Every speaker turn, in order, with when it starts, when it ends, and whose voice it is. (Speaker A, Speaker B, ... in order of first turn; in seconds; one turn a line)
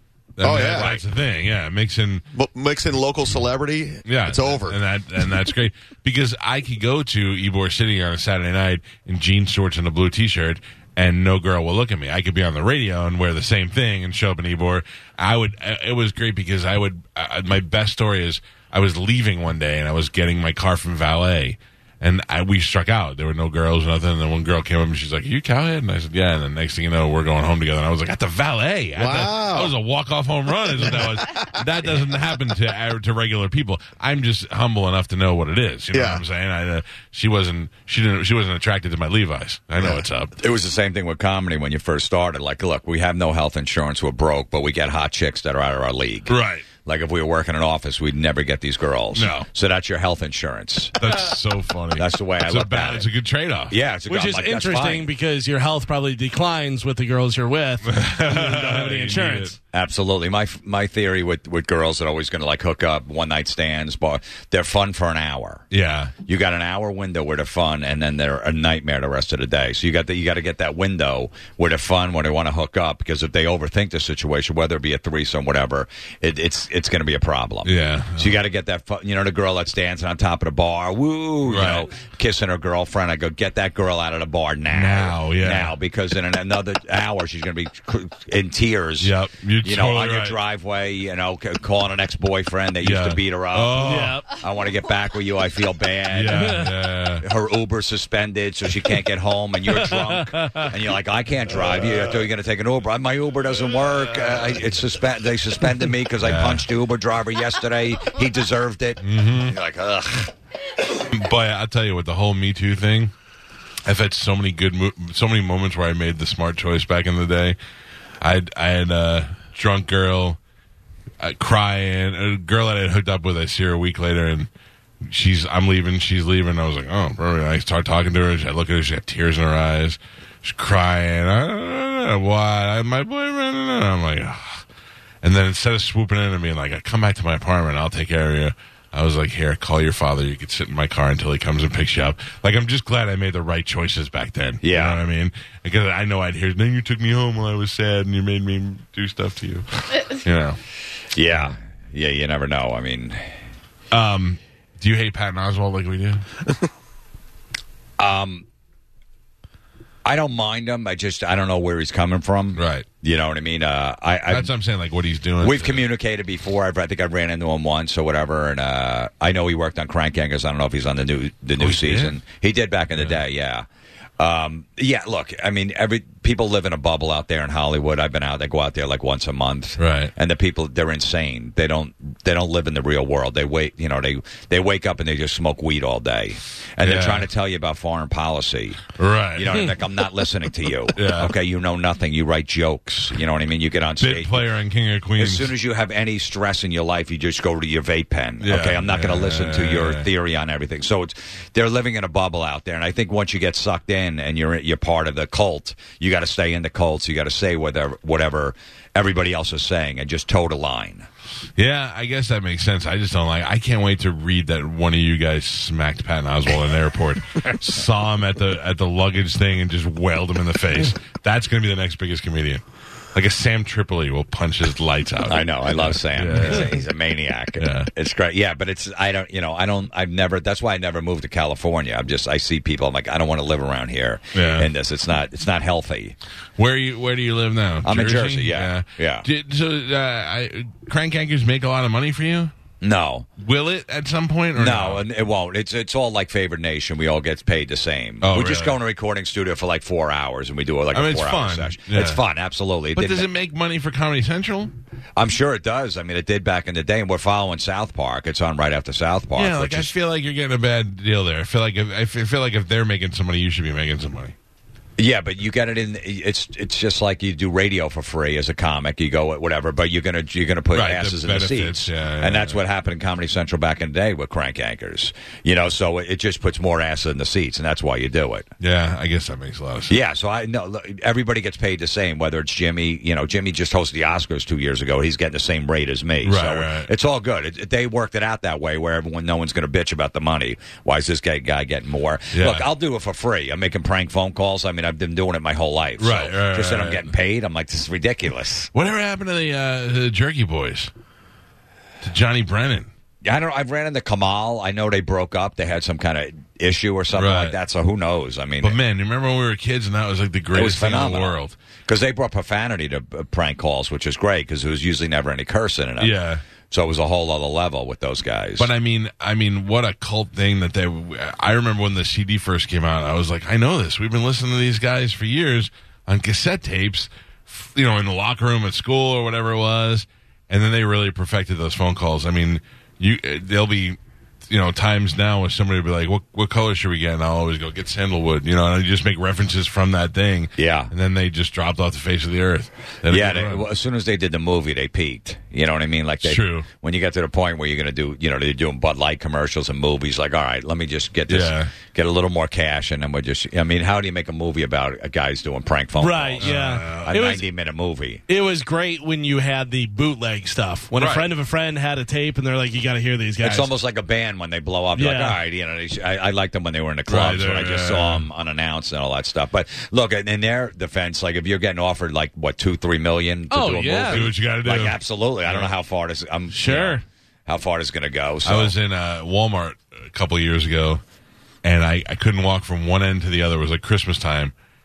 Speaker A: 0.4-2.2
Speaker B: 0.4-1.0
Speaker B: 2.3-4.8
Speaker A: 4.1-40.4
Speaker B: 29.0-29.7
Speaker B: 30.8-31.6
Speaker B: 35.9-36.2
Speaker C: 40.4-46.3
Speaker A: 46.3-46.7
Speaker C: 46.9-51.0
Speaker A: 49.1-49.5
Speaker A: 51.0-53.8
Speaker C: 52.0-53.1
Speaker C: 53.7-55.1
Speaker D: 54.1-59.6
Speaker A: 57.9-59.5
Speaker C: 59.7-65.6
Speaker A: 65.7-66.1
Speaker C: 66.2-96.7
Speaker A: 77.7-78.4
Speaker A: 81.5-81.9
Speaker A: 84.7-85.8
Speaker A: 89.0-90.4
Speaker A: 92.8-94.2
Speaker D: 93.8-94.3
Speaker A: 96.1-97.2
Speaker D: 96.3-96.7
Speaker C: 97.2-110.3
Speaker D: 100.0-100.7
Speaker A: 101.6-102.2
Speaker A: 104.1-104.6
Speaker A: 106.2-106.7
Speaker A: 109.0-109.6
Speaker A: 111.0-113.1
Speaker A: 113.9-117.6
Speaker A: 118.2-120.4
Speaker A: 121.2-124.5
Speaker A: 125.1-134.6
Speaker A: 135.2-150.6
Speaker C: 144.6-145.0
Speaker C: 151.2-153.3
Speaker A: 153.9-156.3
Speaker C: 158.0-158.4
Speaker C: 160.1-164.5
Speaker A: 162.6-162.8
Speaker A: 164.3-165.9
Speaker C: 165.4-173.7
Speaker A: 171.6-172.2
Speaker A: 172.9-173.2
Speaker C: 174.2-194.4
Speaker A: 179.8-180.1
Speaker A: 186.8-187.3
Speaker A: 189.0-189.7
Speaker A: 190.9-191.3
Speaker A: 194.0-195.5
Speaker C: 195.2-211.1
Speaker A: 198.4-200.1
Speaker A: 211.6-222.6
Speaker A: 223.1-226.8
Speaker C: 225.3-236.2
Speaker A: 227.6-227.9
Speaker A: 234.3-234.7
Speaker A: 236.6-242.5
Speaker C: 237.8-239.3
Speaker C: 242.8-243.3
Speaker A: 243.4-245.0
Speaker C: 244.6-253.3
Speaker A: 248.2-248.8
Speaker A: 250.9-252.2
Speaker A: 252.9-254.7
Speaker C: 255.2-259.9
Speaker A: 259.4-264.4
Speaker C: 265.0-278.5
Speaker A: 270.7-272.6
Speaker A: 278.6-280.0
Speaker C: 279.9-298.7
Speaker A: 286.2-286.9
Speaker A: 292.3-292.7
Speaker A: 296.0-297.1
Speaker A: 298.7-300.9
Speaker A: 302.0-302.9
Speaker C: 303.2-308.8
Speaker A: 307.1-307.6
Speaker A: 308.6-311.6
Speaker C: 310.5-316.1
Speaker A: 316.0-316.4
Speaker C: 316.7-318.7
Speaker A: 318.6-334.0
Speaker A: 334.5-343.7
Speaker C: 340.6-340.9
Speaker C: 343.1-358.2
Speaker A: 346.2-346.7
Speaker A: 351.3-351.7
Speaker D: 356.0-357.5
Speaker A: 356.4-357.1
Speaker D: 358.3-363.7
Speaker A: 360.9-361.3
Speaker C: 363.4-378.7
Speaker D: 364.9-365.4
Speaker A: 367.1-368.3
Speaker D: 373.5-374.3
Speaker A: 374.1-375.7
Speaker D: 376.5-377.0
Speaker A: 378.4-381.0
Speaker A: 381.6-384.5